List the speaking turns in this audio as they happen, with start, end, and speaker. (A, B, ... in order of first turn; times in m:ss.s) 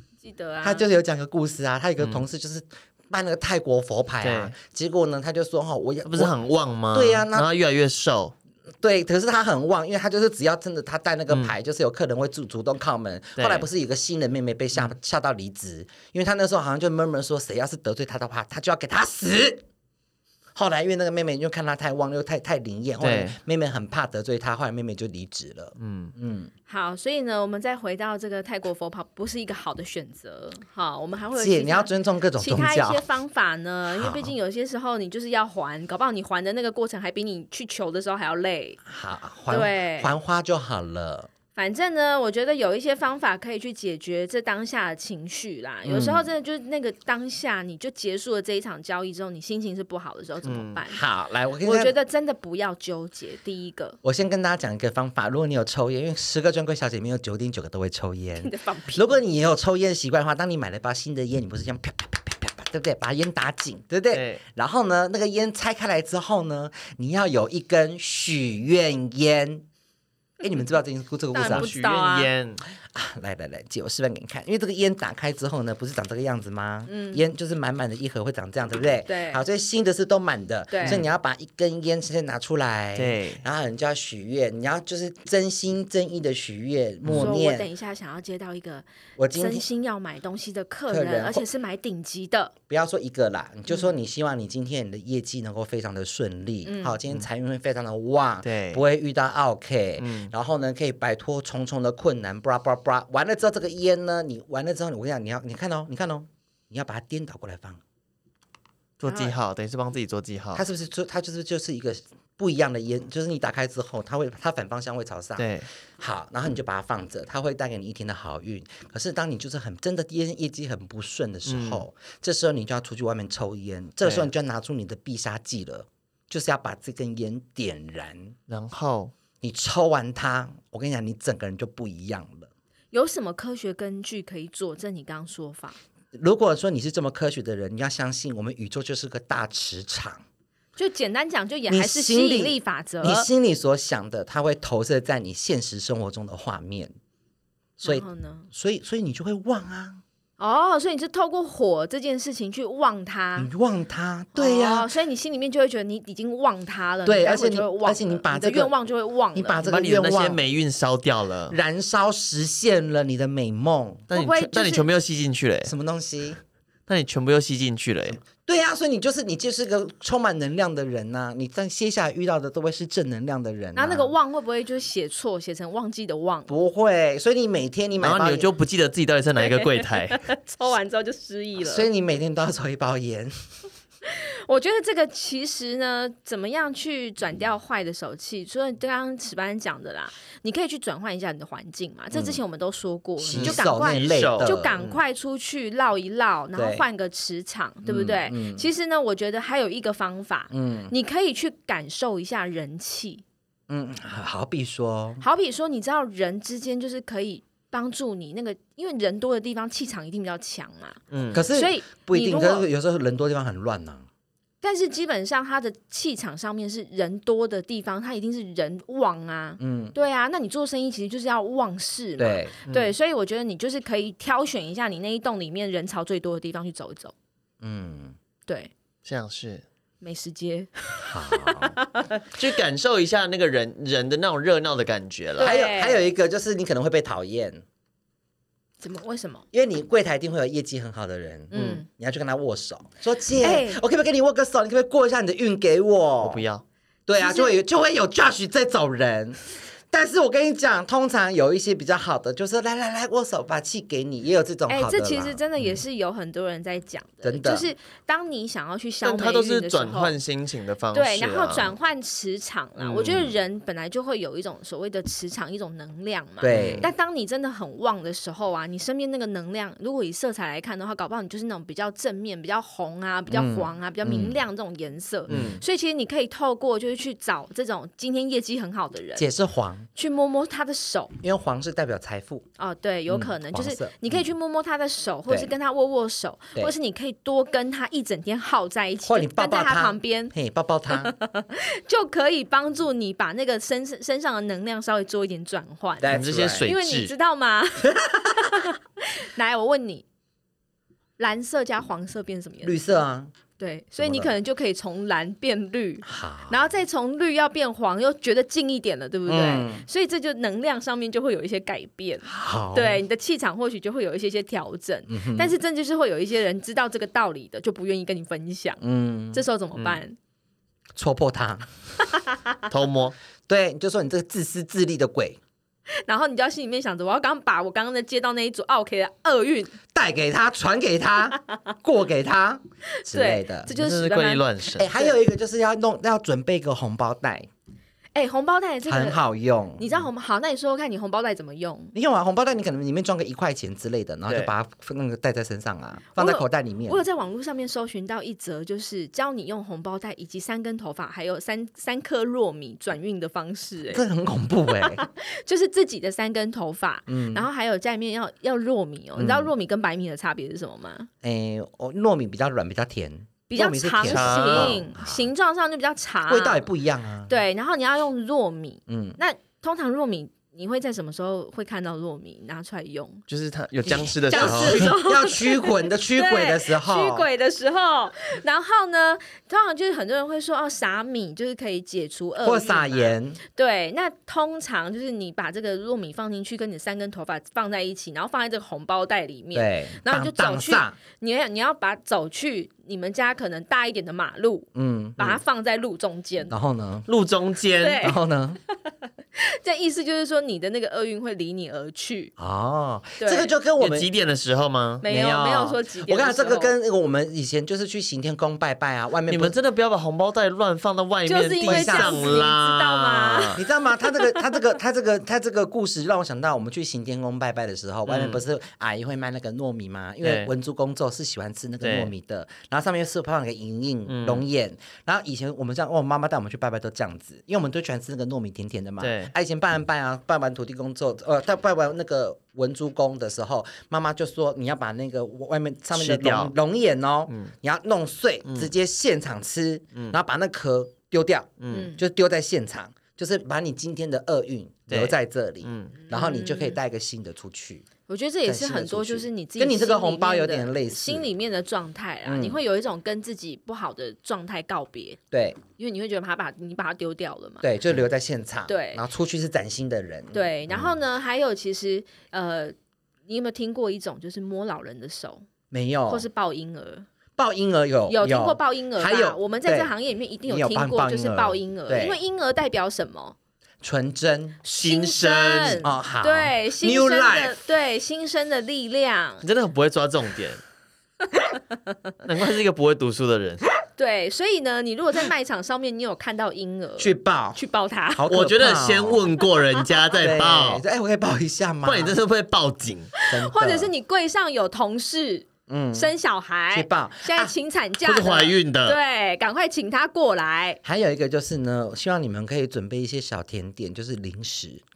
0:00.2-0:00.8 A
0:00.6-0:06.3 B
0:04.2-0:04.5 C
0:06.0-0:08.3 C
0:06.9-0:07.5 B
0:08.8-0:19.6 B
0:13.4-0:13.7 C
0:20.5-0:26.5 B
0:23.0-0:23.4 C
0:25.8-0:26.1 C
0:26.7-0:38.8 A
0:31.4-0:33.0 B
0:33.9-0:34.3 B
0:38.8-0:41.3 B
0:39.5-0:40.1 A
0:41.5-0:51.0 A
0:45.8-0:46.3 B
0:50.4-0:50.8 C
0:50.9-0:51.9 B
0:51.6-0:54.0 A
0:54.0-1:09.6 B
0:58.4-0:59.2 A
1:04.1-1:04.4 C
1:10.4-1:11.7 B
1:11.3-1:12.3 A
1:11.4-1:12.6 C
1:12.8-1:27.7 B
1:16.9-1:17.2 A
1:19.1-1:19.4 A
1:20.7-1:21.0 A
1:23.0-1:23.4 C
1:27.0-1:27.3 C
1:27.1-1:32.5 A
1:29.2-1:29.6 B
1:30.9-1:31.4 B
1:32.7-1:47.8 B
1:36.6-1:37.0 A
1:38.4-1:38.8 C
1:40.0-1:40.3 C
1:49.0-1:50.6 C
1:50.5-2:08.3 B
1:55.4-1:55.6 C
2:01.4-2:01.8 C
2:04.0-2:04.3 C
2:08.5-2:09.1 C
2:09.4-2:12.5 B
2:12.9-2:15.8 A
2:16.1-2:20.2 B
2:20.8-2:23.3 A
2:21.7-2:26.9 B
2:27.8-2:30.0 B
2:27.8-2:28.5 A
2:30.4-2:33.5 A
2:33.4-2:34.9 B
2:34.3-2:39.6 A
2:37.0-2:38.7 B
2:39.3-2:40.4 B
2:39.6-2:41.6 C
2:41.5-2:44.1 B
2:44.1-2:45.7 C
2:44.1-2:44.9 A
2:45.6-2:46.4 B
2:46.9-2:48.2 C
2:48.2-2:54.1 B
2:53.7-2:56.5 A
2:56.5-2:58.5 B
2:58.0-3:00.2 C
2:59.4-3:01.9 A
3:01.6-3:03.3 B
3:04.1-3:23.2 A
3:12.1-3:12.4 B
3:13.2-3:14.8 B
3:13.3-3:15.0 C
3:16.5-3:16.8 B
3:17.8-3:18.7 B
3:20.5-3:20.9 B
3:23.7-3:25.2 B
3:25.2-3:32.6 A
3:31.1-3:31.4 C
3:31.3-3:34.0 B
3:34.6-3:47.1 A
3:39.6-3:39.9 B
3:42.2-3:42.5 B
3:42.7-3:42.9 C
3:47.6-3:48.2 B
3:49.0-3:49.6 C
3:50.0-3:52.2 A
3:51.0-3:51.8 B
3:52.3-3:55.5 C
3:55.4-3:56.0 A
3:55.4-3:57.6 B
3:58.8-3:59.4 A
3:59.5-4:06.4 B
4:01.5-4:01.8 A
4:01.5-4:01.8 C
4:03.4-4:03.8 A
4:06.2-4:06.6 C
4:07.1-4:15.4 B
4:07.2-4:07.6 A
4:14.7-4:20.2 A
4:17.2-4:17.7 B
4:19.0-4:21.7 C
4:20.9-4:39.3 A
4:22.8-4:23.3 C
4:26.4-4:26.9 B
4:26.5-4:26.9 C
4:33.3-4:34.4 B
4:35.3-4:35.6 B
4:35.3-4:35.6 C
4:39.2-4:39.9 B
4:39.9-4:41.1 A
4:41.2-4:42.5 B
4:42.6-4:50.3 A
4:43.1-4:44.2 B
4:49.0-4:51.1 B
4:50.9-5:00.0 A
4:56.0-4:56.7 B
4:56.1-4:57.1 C
4:57.8-4:58.4 B
5:01.2-5:03.0 A
5:02.6-5:03.3 B
5:03.6-5:18.8 A
5:04.0-5:04.3 B
5:06.0-5:06.6 B
5:09.3-5:09.8 B
5:12.2-5:13.0 B
5:15.1-5:15.6 B
5:18.8-5:19.4 B
5:19.3-5:20.2 A
5:20.9-5:21.7 B
5:22.1-5:22.5 A
5:22.7-5:23.2 C
5:23.5-5:25.4 B
5:26.0-5:29.7 A
5:29.9-5:33.7 B
5:33.0-5:35.1 A
5:33.7-5:34.9 C
5:34.8-5:37.5 B
5:38.1-5:39.2 A
5:38.8-5:40.0 B
5:39.8-5:41.9 A
5:41.9-5:47.0 B
5:46.1-5:54.0 A
5:53.9-5:55.0 B
5:54.7-6:01.1 A
5:57.1-5:57.5 B
5:59.2-5:59.5 B
6:01.2-6:05.3 B
6:03.5-6:06.7 A
6:04.0-6:04.8 C
6:06.3-6:07.3 B
6:07.3-6:13.2 A
6:08.9-6:09.2 B
6:13.3-6:14.9 C
6:13.9-6:36.5 A
6:14.3-6:17.2 B
6:22.4-6:23.4 B
6:29.5-6:31.0 B
6:34.7-6:35.3 B
6:36.5-6:37.1 B
6:37.1-6:38.1 C
6:37.8-6:38.2 A
6:38.0-6:38.6 B
6:39.4-6:42.3 A
6:42.4-6:44.1 B
6:43.2-6:43.5 A
6:43.8-6:45.0 C
6:45.0-6:46.7 A
6:45.0-6:49.6 B
6:49.3-6:53.6 C
6:51.3-6:54.4 A
6:51.6-6:52.5 B
6:53.6-7:27.8 B
6:58.1-6:58.4 C
7:00.2-7:00.5 C
7:01.8-7:02.1 C
7:04.1-7:04.4 C
7:09.0-7:09.3 C
7:15.9-7:16.5 C
7:21.6-7:21.9 C
7:21.7-7:22.0 A
7:24.9-7:25.9 C
7:26.1-7:26.8 A
7:28.1-7:35.2 A
7:28.4-7:31.3 B
7:32.2-7:32.6 B
7:35.3-7:35.6 B
7:35.8-7:37.7 A
7:37.6-7:40.9 B
7:38.7-7:39.0 A
7:40.3-7:42.7 A
7:43.3-7:45.4 A
7:45.7-7:46.2 B
7:46.1-7:47.0 A
7:47.4-7:52.2 B
7:48.1-7:53.4 A
7:53.8-7:54.6 B
7:54.6-7:59.4 A
7:54.7-7:55.9 C
7:55.8-7:57.5 B
7:59.4-8:00.6 C
8:02.2-8:03.6 C
8:04.0-8:08.2 A
8:07.0-8:07.6 B
8:08.1-8:09.3 B
8:08.3-8:10.8 C
8:10.1-8:12.2 B
8:11.8-8:13.1 C
8:13.2-8:20.8 A
8:13.3-8:13.9 B
8:15.7-8:16.1 B
8:16.7-8:17.5 B
8:18.0-8:19.0 C
8:20.8-8:24.8 B